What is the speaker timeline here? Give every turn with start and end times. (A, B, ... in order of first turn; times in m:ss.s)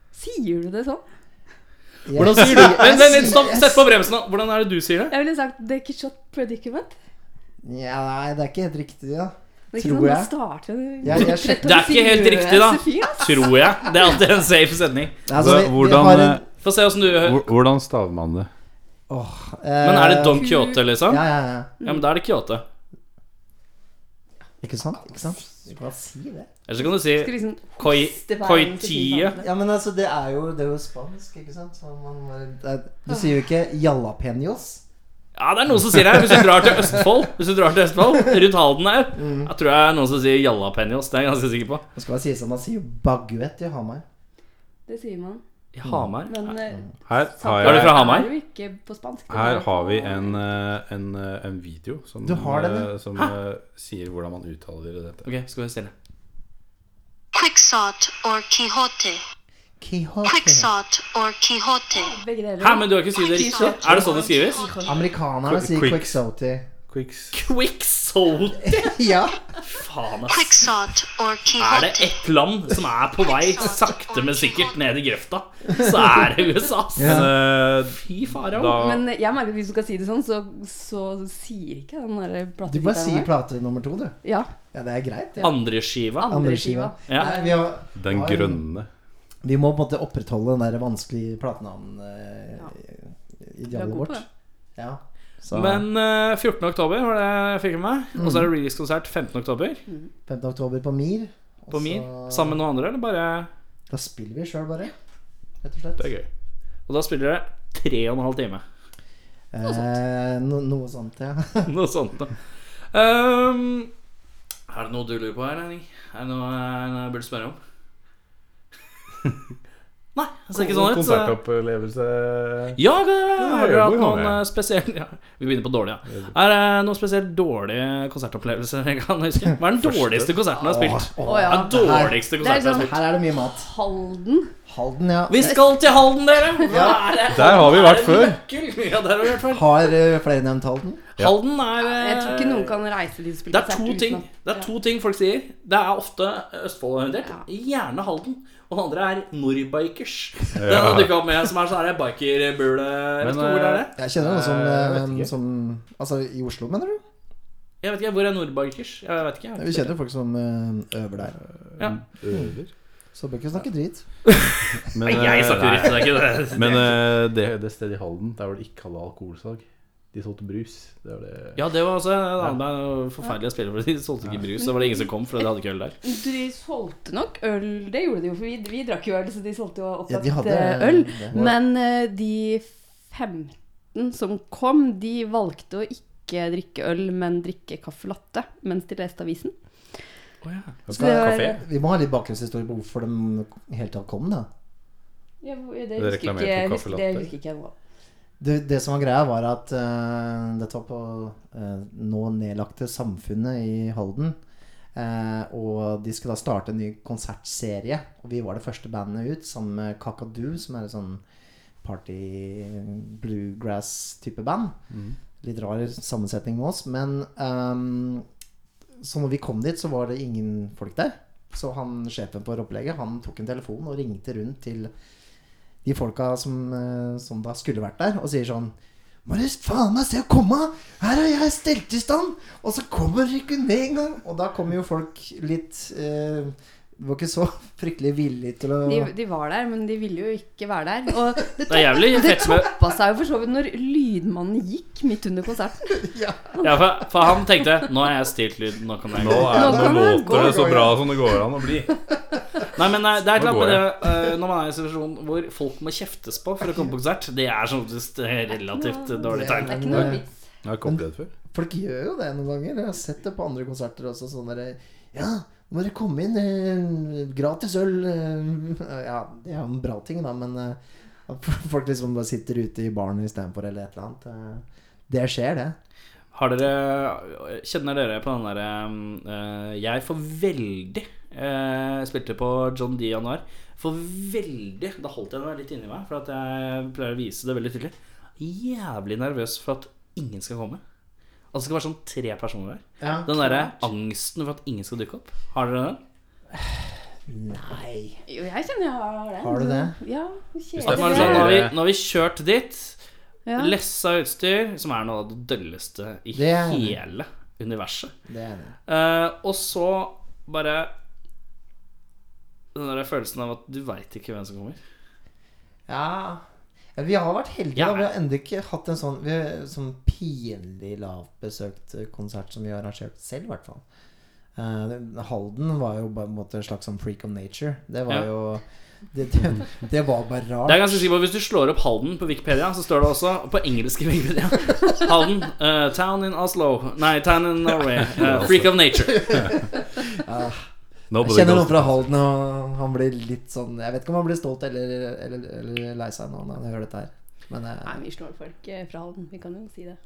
0:00.2-0:01.0 A
0:02.1-0:03.8 B
0:02.2-0:05.1 C
0:05.1-0:06.9 A
0:07.6-0:10.3 B
0:09.7-0:13.6 A
0:11.0-0:11.7 B
0:11.6-0:15.2 C
0:15.3-0:16.4 B
0:15.3-0:16.4 D
0:16.6-0:17.5 C
0:17.2-0:18.5 D
0:19.1-0:20.5 B
0:19.8-0:21.2 C
0:20.4-0:20.8 A
0:21.1-0:21.7 B
0:21.8-0:22.6 C
0:24.6-0:26.5 B
0:26.7-0:29.4 C
0:27.0-0:29.5 A
0:29.4-0:34.8 B
0:35.4-0:41.8 C
0:36.3-0:36.6 B
0:39.1-0:39.5 B
0:42.0-0:44.0 B
0:44.9-0:45.4 A
0:45.7-0:46.5 C
0:46.3-0:50.4 A
0:47.1-0:48.2 D
0:47.6-0:48.3 C
0:49.3-0:55.2 D
0:52.2-0:52.9 B
0:55.2-0:55.9 C
0:57.3-0:59.2 E
0:59.8-1:00.7 B
1:00.2-1:02.2 E
1:01.9-1:05.0 A
1:02.6-1:04.7 C
1:03.8-1:04.2 B
1:04.3-1:04.8 E
1:04.8-1:06.7 B
1:05.5-1:06.2 D
1:06.9-1:07.3 D
1:07.3-1:08.8 C
1:08.7-1:09.4 B
1:09.7-1:10.5 C
1:10.3-1:12.1 E
1:11.6-1:18.9 C
1:13.1-1:14.8 E
1:17.0-1:17.4 B
1:17.0-1:19.0 D
1:18.7-1:23.3 A
1:22.7-1:24.2 B
1:24.2-1:24.5 A
1:24.7-1:25.7 B
1:25.4-1:26.3 C
1:26.2-1:27.6 A
1:26.3-1:28.6 B
1:28.0-1:28.9 D
1:29.4-1:34.2 B
1:33.7-1:34.3 A
1:34.8-1:35.9 B
1:35.5-1:39.8 C
1:38.2-1:38.5 B
1:40.3-1:42.6 B
1:41.7-1:43.5 C
1:43.9-1:44.9 B
1:45.6-1:46.0 B
1:46.0-1:46.3 D
1:46.9-1:48.6 C
1:49.5-1:51.7 B
1:51.6-1:52.3 C
1:52.9-1:53.9 C
1:54.7-1:57.6 C
2:00.2-2:01.4 C
2:00.5-2:02.8 D
2:02.8-2:12.9 C
2:03.4-2:04.4 D
2:09.8-2:10.3 D
2:10.6-2:13.7 B
2:11.2-2:14.5 A
2:14.7-2:15.6 B
2:15.3-2:19.9 C
2:16.7-2:17.1 B
2:17.3-2:18.4 D
2:19.5-2:21.0 B
2:21.2-2:22.7 C
2:21.8-2:24.6 A
2:23.5-2:33.9 C
2:30.6-2:31.2 D
2:33.2-2:35.3 D
2:33.9-2:37.0 B
2:37.8-2:39.9 C
2:39.6-2:41.4 B
2:41.6-2:42.7 D
2:43.1-2:44.3 B
2:45.0-2:51.6 D
2:45.0-2:47.0 C
2:51.6-2:56.0 C
2:54.6-2:55.1 A
2:56.0-3:09.5 A
3:00.1-3:01.6 B
3:10.4-3:10.8 C
3:10.9-3:11.6 D
3:10.9-3:14.5 B
3:10.9-3:11.6 A
3:15.4-3:17.8 A
3:16.0-3:17.3 D
3:18.4-3:24.4 B
3:25.0-3:31.2 B
3:31.8-3:34.8 B
3:35.4-3:38.3 B
3:39.0-3:44.9 B
3:45.8-3:48.7 B
3:49.3-3:59.1 B
3:58.8-4:06.0 A
4:01.7-4:02.7 C
4:06.0-4:06.5 B
4:06.6-4:09.8 C
4:09.2-4:11.9 D
4:09.5-4:11.0 A
4:09.8-4:10.8 B
4:12.8-4:20.0 C
4:13.3-4:14.0 D
4:18.6-4:20.3 A
4:19.3-4:20.2 B
4:20.6-4:21.3 D
4:20.8-4:35.8 B
4:36.3-4:50.8 C
4:51.5-4:56.0 C
4:53.0-4:53.3 B
4:53.3-4:53.8 A
4:56.6-4:58.2 B
4:58.3-5:01.6 A
4:59.4-5:00.0 B
5:00.8-5:01.7 D
5:00.8-5:03.0 C
5:03.4-5:03.7 A
5:03.6-5:08.1 C
5:06.3-5:07.0 B
5:08.3-5:08.7 B
5:08.9-5:10.9 C
5:12.8-5:14.8 C
5:15.9-5:16.4 B
5:17.0-5:23.8 B
5:17.8-5:18.1 C
5:24.6-5:31.1 B
5:30.7-5:39.5 C
5:38.1-5:38.7 D
5:39.1-5:40.6 B
5:41.1-5:42.1 D
5:41.2-5:48.0 B
5:47.8-5:50.0 A